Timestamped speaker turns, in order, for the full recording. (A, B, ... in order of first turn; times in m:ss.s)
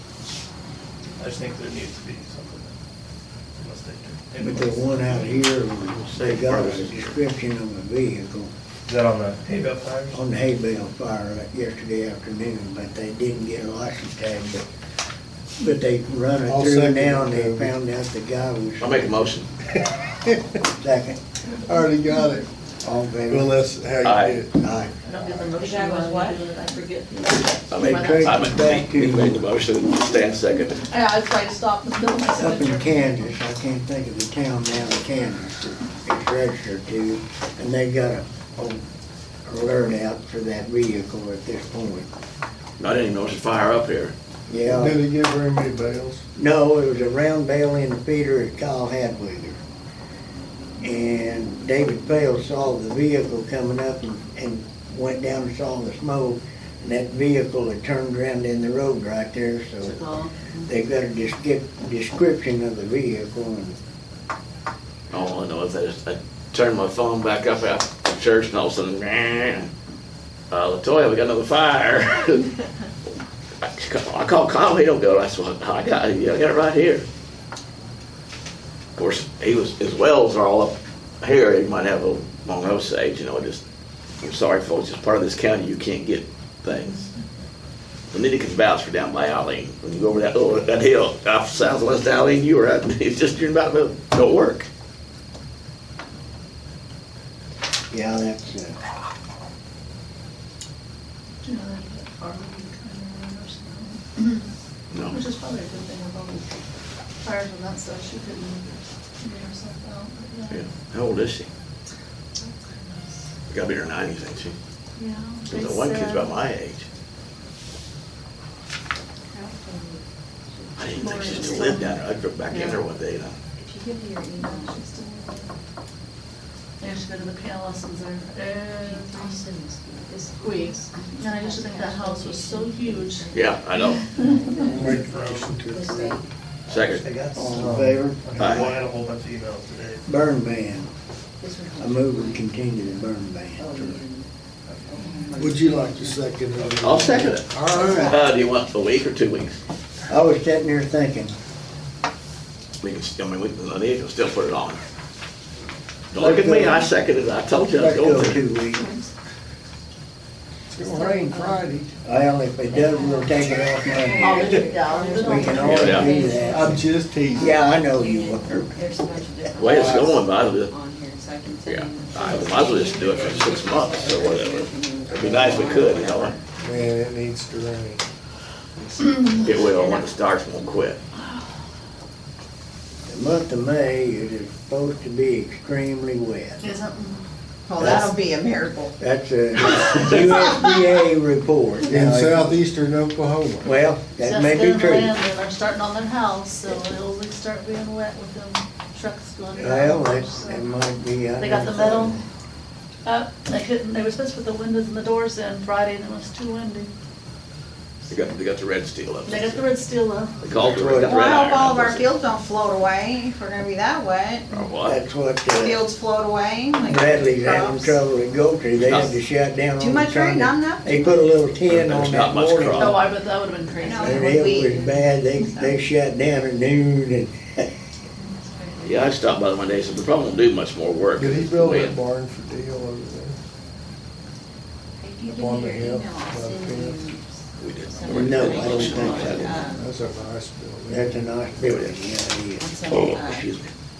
0:01.2-0:02.8 A
0:03.5-0:04.9 A
0:04.4-0:08.5 B
0:06.0-0:07.2 C
0:08.9-0:10.2 A
0:10.1-0:14.6 B
0:15.6-0:19.2 B
0:16.5-0:17.8 D
0:18.8-0:19.5 C
0:20.1-0:20.4 D
0:20.8-0:21.2 B
0:21.7-0:22.5 D
0:22.8-0:23.6 B
0:23.3-0:24.6 D
0:24.0-0:24.4 C
0:24.6-0:25.0 B
0:25.0-0:28.8 E
0:25.6-0:26.5 F
0:27.7-0:30.9 C
0:27.7-0:29.4 B
0:30.8-0:33.2 E
0:32.4-0:38.8 B
0:39.5-0:42.1 B
0:42.8-0:44.1 C
0:44.5-0:45.0 B
0:44.6-0:46.2 D
0:46.4-0:49.6 B
0:50.8-1:00.1 B
0:59.8-1:00.5 E
1:00.6-1:03.8 B
1:05.1-1:09.7 C
1:10.5-1:12.5 C
1:13.6-1:17.0 C
1:19.0-1:23.6 C
1:24.2-1:27.1 C
1:28.1-1:34.7 C
1:37.9-1:38.8 B
1:41.4-1:44.4 E
1:44.9-1:45.2 C
1:45.1-1:46.5 E
1:47.2-1:50.6 E
1:50.5-1:51.5 C
1:53.5-1:54.6 C
1:55.0-1:56.4 E
1:55.5-1:56.9 C
1:59.3-2:00.0 F
2:00.5-2:01.6 F
2:00.8-2:03.4 C
2:00.9-2:02.9 E
2:03.6-2:04.8 F
2:04.4-2:05.5 E
2:06.8-2:09.4 E
2:08.8-2:15.0 F
2:10.4-2:14.7 E
2:13.3-2:14.0 C
2:14.7-2:16.2 D
2:14.8-2:15.4 A
2:15.7-2:16.3 F
2:16.7-2:17.0 C
2:16.7-2:20.0 A
2:17.4-2:18.7 B
2:17.6-2:17.9 D
2:18.4-2:18.7 C
2:20.1-2:20.9 B
2:21.4-2:22.5 F
2:21.8-2:24.0 B
2:23.6-2:24.3 F
2:24.9-2:26.2 F
2:25.4-2:28.2 D
2:26.8-2:29.6 C
2:27.7-2:28.1 B
2:27.8-2:28.2 F
2:30.1-2:31.4 B
2:32.8-2:34.8 C
2:36.1-2:38.4 C
2:36.2-2:36.9 B
2:37.7-2:38.9 B
2:38.8-2:39.0 F
2:40.7-2:41.9 D
2:40.9-2:41.6 F
2:42.0-2:46.8 B
2:42.7-2:46.5 F
2:44.2-2:46.8 E
2:45.6-2:47.6 D
2:45.7-2:46.1 C
2:47.3-2:56.5 F
2:47.3-2:48.9 B
2:49.6-2:50.7 C
2:49.7-2:50.1 D
2:51.7-2:56.4 C
2:56.6-2:58.0 D
2:59.3-3:00.0 F
2:59.4-3:01.0 C
3:03.1-3:06.6 B
3:06.6-3:07.2 E
3:07.7-3:08.9 G
3:07.8-3:08.1 B
3:09.0-3:12.6 B
3:11.9-3:13.7 D
3:13.6-3:15.1 B
3:14.2-3:20.8 E
3:19.6-3:22.2 B
3:21.4-3:22.2 E
3:23.0-3:26.9 E
3:28.1-3:29.7 C
3:29.3-3:30.5 E
3:30.4-3:32.1 C
3:30.6-3:31.1 B
3:30.9-3:34.5 G
3:34.5-3:35.0 C
3:34.8-3:35.9 B
3:35.5-3:38.0 G
3:36.8-3:43.0 B
3:38.8-3:39.2 C
3:39.8-3:41.3 G
3:41.6-3:43.1 C
3:42.8-3:44.4 E
3:43.8-3:44.9 F
3:43.8-3:45.8 G
3:44.0-3:47.7 B
3:48.4-3:48.8 E
3:48.8-3:52.0 C
3:51.2-3:53.4 D
3:55.0-3:59.9 F
3:55.3-3:57.2 D
3:57.6-3:59.5 C
3:58.1-3:59.6 B
3:58.1-4:01.3 D
4:00.9-4:02.7 B
4:01.6-4:02.0 C
4:02.6-4:03.5 F
4:02.9-4:03.7 C